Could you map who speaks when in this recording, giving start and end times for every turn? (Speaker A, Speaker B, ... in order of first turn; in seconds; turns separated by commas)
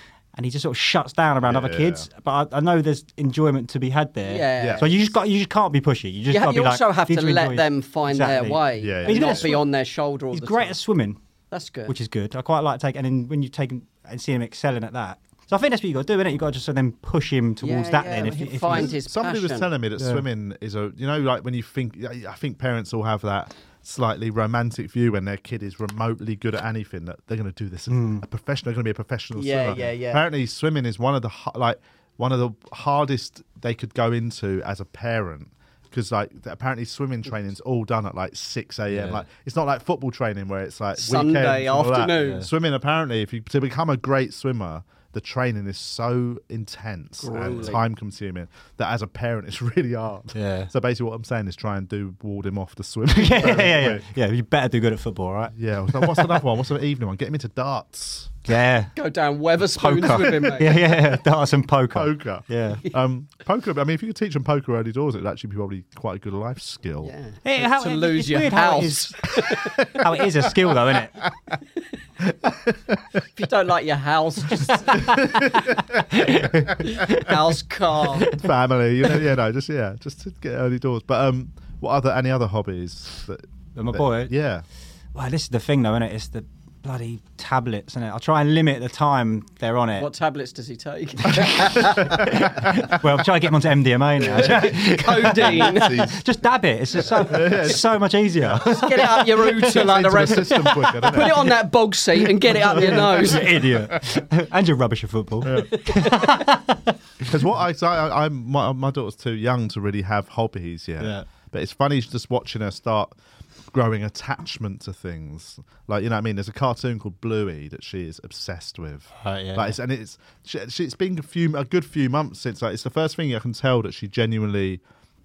Speaker A: 0.3-9.7, Speaker B: 1.4-2.1, Speaker C: 4.2-5.0, Speaker B: 4.6-4.9, Speaker C: 6.3-10.8, Speaker B: 8.8-9.5, Speaker A: 10.3-11.2, Speaker C: 11.5-11.9, Speaker A: 11.9-19.0, Speaker C: 17.6-19.7, Speaker B: 18.7-54.0, Speaker A: 20.0-20.2, Speaker A: 27.9-28.2, Speaker C: 29.4-30.2, Speaker A: 38.9-39.2, Speaker C: 41.0-42.5, Speaker A: 42.2-42.5, Speaker C: 47.2-47.8, Speaker A: 50.4-50.7, Speaker A: 53.1-56.4, Speaker B: 55.5-58.4, Speaker A: 58.5-58.9, Speaker C: 59.0-61.0, Speaker A: 59.8-62.8, Speaker B: 61.9-67.1, Speaker C: 67.0-69.8, Speaker A: 67.5-69.3, Speaker A: 70.0-71.2, Speaker B: 72.3-73.0, Speaker C: 73.4-75.7, Speaker B: 75.0-76.0, Speaker A: 76.1-77.4, Speaker C: 76.8-78.3, Speaker A: 78.2-78.5, Speaker B: 78.3-84.7, Speaker A: 83.8-84.3, Speaker A: 85.2-90.1, Speaker C: 90.0-92.2, Speaker A: 91.3-99.6, Speaker B: 92.0-92.8, Speaker C: 94.2-96.0, Speaker B: 97.2-97.9, Speaker C: 98.6-103.5, Speaker B: 99.6-101.5, Speaker B: 102.5-104.0, Speaker A: 102.7-107.3, Speaker B: 105.4-105.7, Speaker B: 107.2-113.2, Speaker A: 111.0-111.3, Speaker B: 113.7-124.8, Speaker A: 119.2-119.8